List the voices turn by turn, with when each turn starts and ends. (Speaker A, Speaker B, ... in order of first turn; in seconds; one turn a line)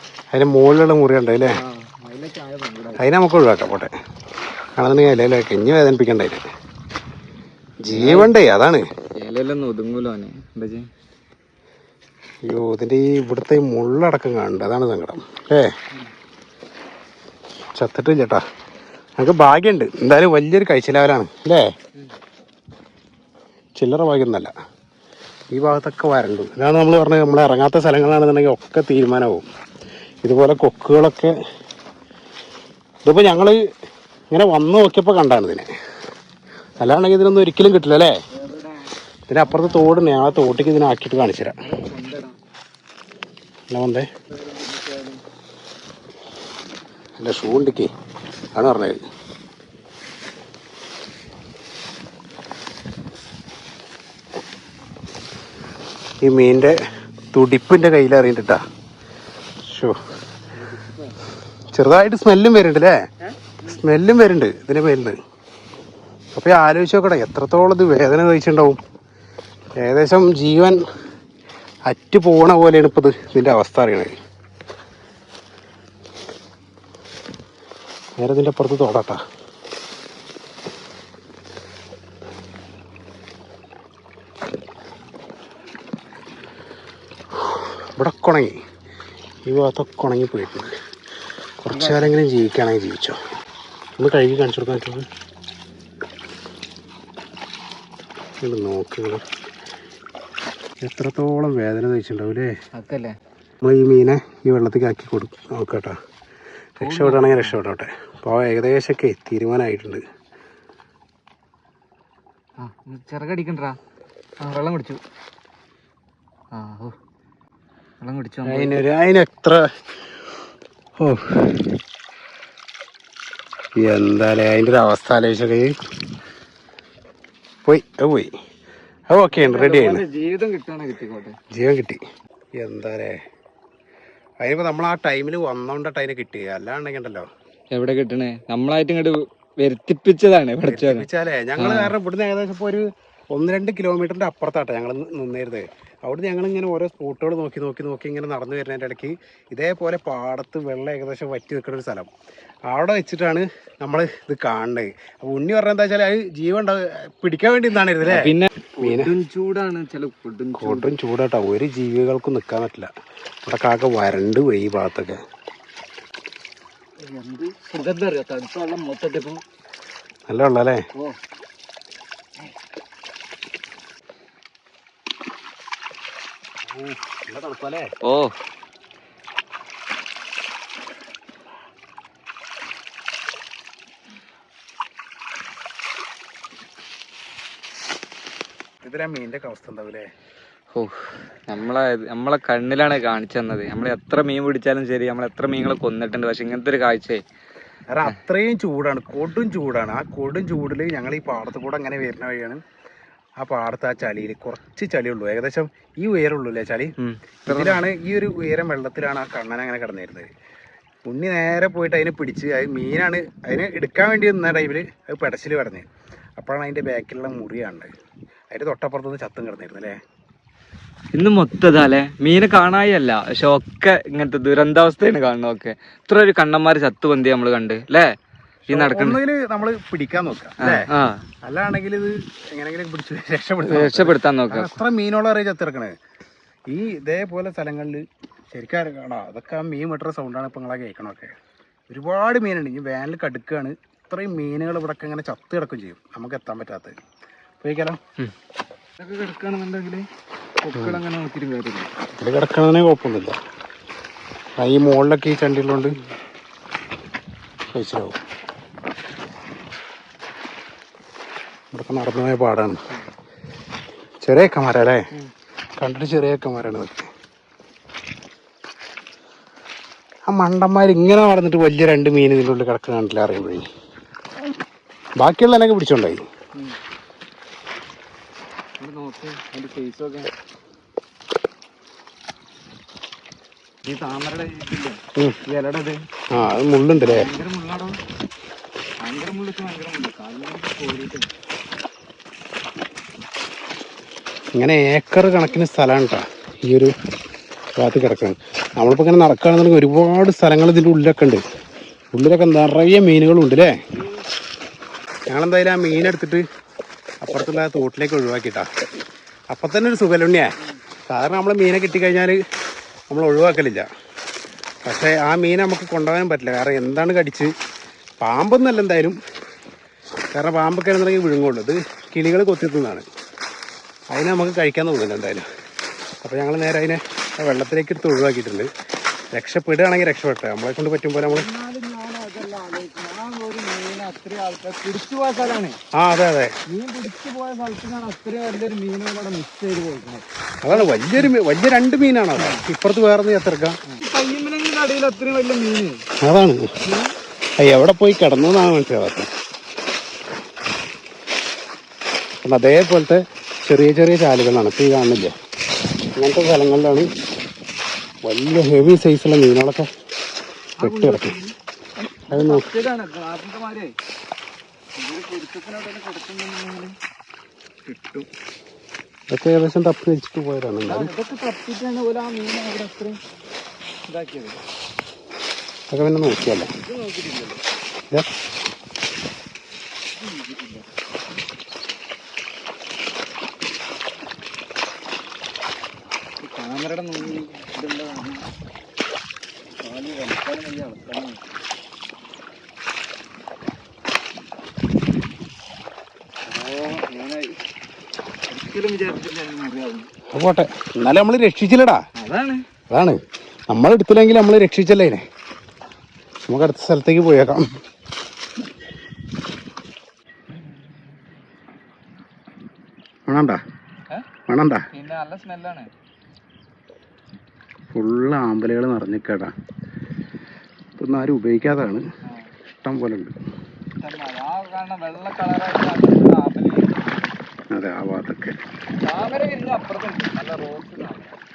Speaker A: 0.3-1.6
Speaker B: 1.4-3.0
Speaker A: 3.0-3.9
Speaker A: 4.8-6.5
Speaker A: 7.8-8.8
Speaker B: 7.9-8.3
Speaker B: 9.2-10.9
Speaker A: 12.5-15.7
Speaker A: 17.8-18.4
Speaker A: 19.2-21.7
Speaker A: 23.8-24.5
Speaker A: 25.5-29.5
Speaker A: 30.2-31.3
Speaker A: 33.0-33.6
Speaker A: 34.3-35.7
Speaker A: 36.8-38.2
Speaker B: 38.3-38.9
Speaker A: 39.3-41.6
Speaker B: 39.4-40.8
Speaker B: 41.6-42.4
Speaker A: 43.7-44.1
Speaker B: 44.3-45.2
Speaker A: 47.2-47.9
Speaker A: 48.5-49.0
Speaker A: 56.2-56.8
Speaker A: 57.3-58.6
Speaker A: 59.7-60.0
Speaker B: 60.5-61.2
Speaker A: 61.7-63.0
Speaker A: 63.6-65.2
Speaker A: 66.3-68.8
Speaker A: 69.8-70.8
Speaker A: 71.9-74.2
Speaker A: 78.2-79.2
Speaker A: 87.4-88.6
Speaker A: 89.5-90.7
Speaker A: 91.6-93.2
Speaker B: 91.7-92.1
Speaker A: 94.0-95.1
Speaker A: 98.4-99.2
Speaker A: 100.8-102.5
Speaker B: 102.7-103.1
Speaker A: 103.6-106.0
Speaker A: 106.8-110.0
Speaker B: 106.8-107.6
Speaker B: 112.6-113.8
Speaker B: 114.4-115.0
Speaker B: 116.5-117.0
Speaker B: 118.0-118.8
Speaker A: 118.5-119.7
Speaker A: 121.0-121.7
Speaker A: 123.8-125.8
Speaker A: 127.7-128.3
Speaker A: 129.1-130.0
Speaker B: 129.3-131.4
Speaker A: 131.5-132.0
Speaker A: 132.6-133.2
Speaker A: 134.4-137.3
Speaker B: 137.7-141.9
Speaker A: 140.7-152.1
Speaker A: 152.7-159.1
Speaker B: 158.1-160.9
Speaker A: 160.6-162.9
Speaker A: 163.5-165.2
Speaker B: 167.0-169.4
Speaker A: 170.3-170.9
Speaker A: 176.7-177.9
Speaker B: 178.0-178.3
Speaker A: 188.8-190.1
Speaker B: 190.7-197.2
Speaker A: 197.9-202.6
Speaker A: 203.4-206.9
Speaker B: 207.0-207.8
Speaker A: 207.5-210.3
Speaker A: 211.1-215.9
Speaker A: 216.4-217.9
Speaker A: 218.5-220.0
Speaker B: 221.2-228.1
Speaker B: 228.7-229.2
Speaker A: 228.7-230.9
Speaker B: 230.6-231.2
Speaker A: 231.4-235.9
Speaker B: 233.6-234.8
Speaker A: 236.7-241.3
Speaker A: 241.9-246.9
Speaker A: 247.6-248.0
Speaker B: 249.0-250.1
Speaker B: 250.6-251.9
Speaker A: 252.2-253.4
Speaker A: 254.6-255.9
Speaker A: 257.7-258.2
Speaker A: 261.7-262.8
Speaker A: 264.2-265.1
Speaker A: 265.8-267.1
Speaker A: 270.3-273.6
Speaker A: 275.2-276.2
Speaker B: 278.8-280.3
Speaker B: 283.9-286.0
Speaker A: 286.3-287.3
Speaker B: 287.0-288.0
Speaker B: 289.0-291.3
Speaker A: 294.6-296.9
Speaker A: 297.8-301.4
Speaker A: 302.1-303.8
Speaker A: 305.3-306.4
Speaker A: 307.2-308.7
Speaker A: 309.5-310.5
Speaker A: 311.1-312.4
Speaker A: 313.1-313.9
Speaker A: 314.9-317.5
Speaker A: 318.2-319.2
Speaker A: 320.3-323.1
Speaker A: 324.1-325.4
Speaker A: 326.2-328.7
Speaker A: 329.3-331.5
Speaker B: 331.2-335.8
Speaker A: 335.9-336.6
Speaker B: 336.7-341.3
Speaker A: 340.6-343.8
Speaker B: 342.4-342.6
Speaker B: 343.9-346.1
Speaker A: 346.2-346.7
Speaker B: 346.8-347.1
Speaker A: 347.6-349.3
Speaker A: 352.4-355.3
Speaker A: 356.2-357.1
Speaker A: 358.2-359.9
Speaker B: 360.8-363.9
Speaker A: 360.8-361.3
Speaker A: 362.3-362.8
Speaker B: 365.0-366.9
Speaker B: 367.9-368.3
Speaker A: 369.3-371.1
Speaker B: 370.9-373.2
Speaker B: 374.1-374.6
Speaker A: 375.9-376.7
Speaker B: 376.8-377.6
Speaker B: 380.2-380.9
Speaker B: 386.4-388.5
Speaker B: 389.8-391.4
Speaker B: 396.5-397.6
Speaker B: 398.5-400.1
Speaker A: 400.3-402.0
Speaker B: 402.2-402.6
Speaker A: 402.9-403.2
Speaker A: 403.7-405.2
Speaker A: 406.5-407.7
Speaker A: 413.3-413.6
Speaker A: 414.5-414.9
Speaker B: 414.9-415.9
Speaker A: 417.9-419.5
Speaker A: 421.0-422.0
Speaker B: 422.3-422.5
Speaker A: 422.8-423.3
Speaker B: 424.0-427.4
Speaker A: 427.7-428.6
Speaker B: 429.0-431.4